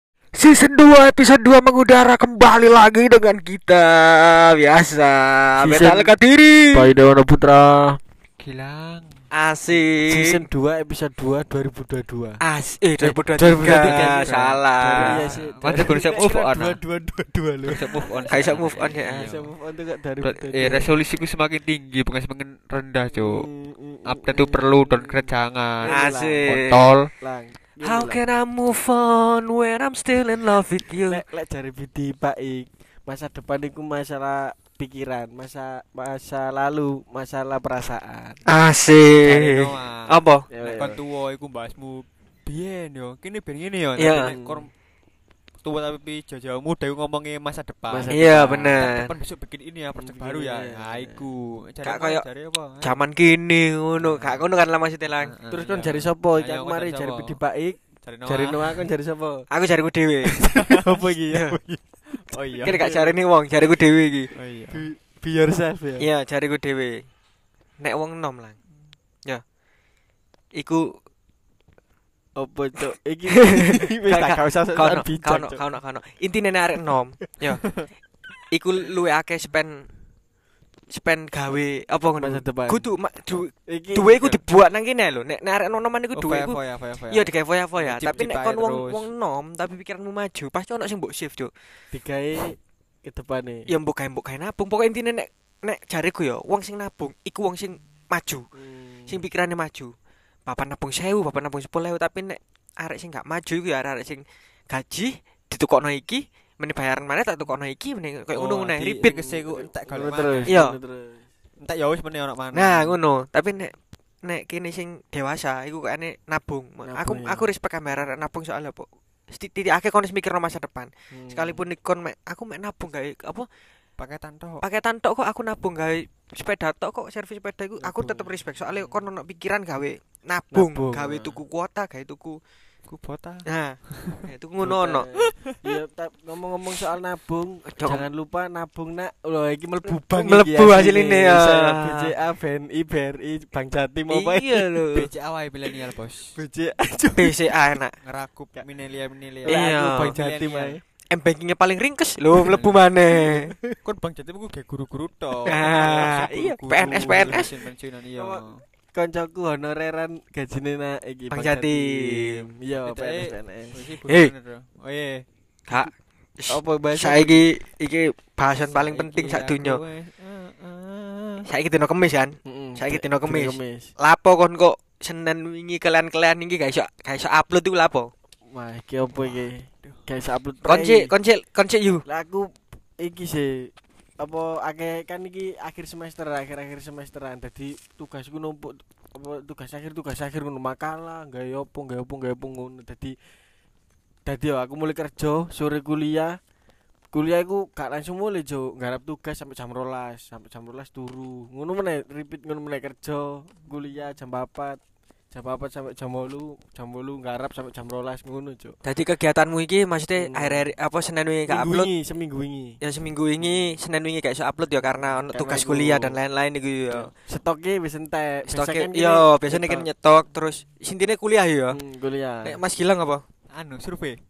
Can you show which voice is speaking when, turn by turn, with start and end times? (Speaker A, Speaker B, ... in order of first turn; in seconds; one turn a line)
Speaker A: 0.3-6.9
Speaker B: 5.6-6.1
Speaker B: 6.7-8.0
Speaker C: 8.4-9.2
Speaker A: 9.3-10.4
Speaker B: 10.1-12.4
Speaker A: 12.4-15.3
Speaker B: 13.0-18.4
Speaker C: 13.6-16.8
Speaker C: 17.6-19.5
Speaker A: 18.3-19.3
Speaker B: 19.1-20.9
Speaker C: 20.2-23.4
Speaker B: 23.1-26.6
Speaker C: 24.1-27.1
Speaker A: 25.8-26.9
Speaker B: 27.2-28.2
Speaker A: 27.8-31.2
Speaker B: 31.1-38.4
Speaker A: 38.5-40.5
Speaker C: 39.2-44.7
Speaker B: 40.5-41.0
Speaker A: 44.0-44.3
Speaker B: 44.2-44.7
Speaker C: 45.6-53.0
Speaker B: 47.9-48.8
Speaker A: 48.1-49.1
Speaker B: 50.0-51.3
Speaker A: 51.8-52.3
Speaker A: 52.8-55.3
Speaker C: 54.0-54.5
Speaker C: 55.2-57.4
Speaker B: 55.5-59.5
Speaker C: 58.0-58.8
Speaker A: 59.5-60.4
Speaker B: 60.4-61.6
Speaker C: 60.5-61.0
Speaker A: 61.3-61.6
Speaker C: 61.7-62.8
Speaker A: 62.6-64.3
Speaker B: 62.7-63.1
Speaker C: 64.3-64.9
Speaker B: 64.7-66.1
Speaker A: 66.0-67.1
Speaker A: 67.8-68.6
Speaker A: 70.5-71.0
Speaker B: 72.3-75.6
Speaker A: 73.7-77.8
Speaker A: 78.5-79.9
Speaker A: 80.9-91.5
Speaker B: 82.2-82.9
Speaker B: 83.7-84.3
Speaker C: 86.2-89.1
Speaker B: 91.9-93.7
Speaker A: 93.7-98.5
Speaker B: 98.5-99.2
Speaker A: 99.1-99.9
Speaker A: 100.5-109.2
Speaker C: 108.3-110.6
Speaker B: 109.1-111.3
Speaker A: 110.5-110.8
Speaker C: 111.6-113.0
Speaker A: 112.5-123.5
Speaker B: 116.8-117.5
Speaker B: 121.1-121.6
Speaker C: 124.0-124.6
Speaker A: 124.6-132.4
Speaker B: 127.8-128.9
Speaker B: 130.5-131.4
Speaker C: 132.9-134.2
Speaker A: 133.4-135.1
Speaker B: 134.6-144.8
Speaker A: 137.7-138.1
Speaker A: 140.1-142.1
Speaker A: 144.1-145.1
Speaker C: 144.9-146.4
Speaker B: 146.3-147.5
Speaker A: 147.2-148.0
Speaker C: 148.0-150.8
Speaker A: 149.4-150.2
Speaker B: 149.4-150.8
Speaker A: 151.1-153.5
Speaker C: 152.4-152.8
Speaker B: 153.1-153.8
Speaker C: 153.8-158.7
Speaker A: 155.4-157.5
Speaker B: 157.2-157.4
Speaker B: 158.2-163.9
Speaker A: 161.3-162.4
Speaker C: 162.8-165.2
Speaker A: 164.1-164.3
Speaker A: 165.7-169.8
Speaker B: 166.5-167.5
Speaker C: 168.7-171.5
Speaker A: 171.4-178.1
Speaker B: 172.4-173.9
Speaker B: 178.5-181.1
Speaker C: 179.2-180.0
Speaker A: 180.7-182.1
Speaker B: 182.1-193.2
Speaker B: 194.2-196.4
Speaker B: 197.1-204.8
Speaker B: 205.3-208.8
Speaker A: 208.8-211.9
Speaker B: 210.2-210.7
Speaker B: 211.5-212.8
Speaker A: 212.8-217.1
Speaker B: 215.3-216.2
Speaker B: 216.9-219.9
Speaker A: 218.5-221.8
Speaker B: 221.7-222.6
Speaker A: 222.4-223.2
Speaker C: 223.5-224.2